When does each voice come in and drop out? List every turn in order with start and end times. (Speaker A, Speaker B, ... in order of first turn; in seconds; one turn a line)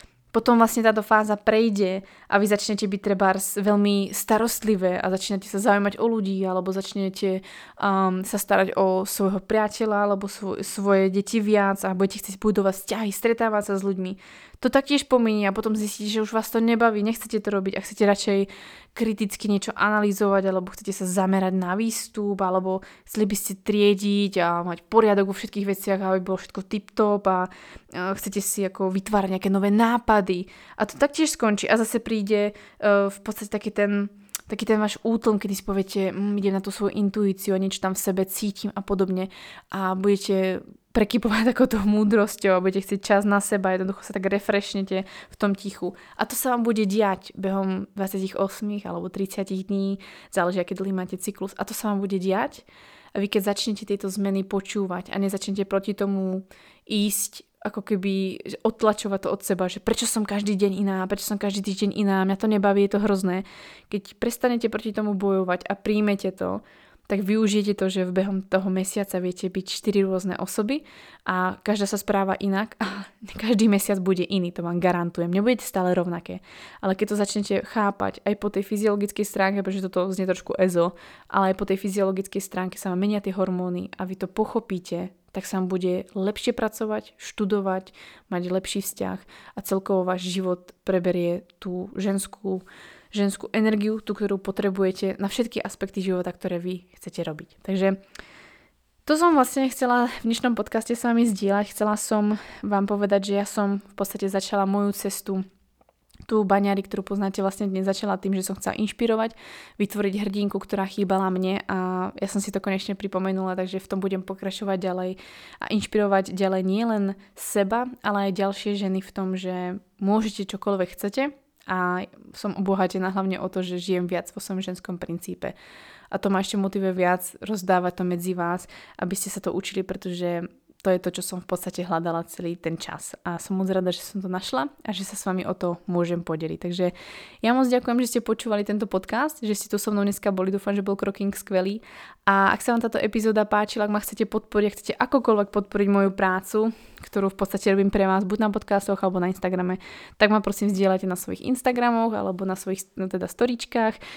Speaker A: 0.3-98.0
Speaker A: 99.0-105.4
Speaker A: 106.3-125.5
Speaker A: 126.1-154.0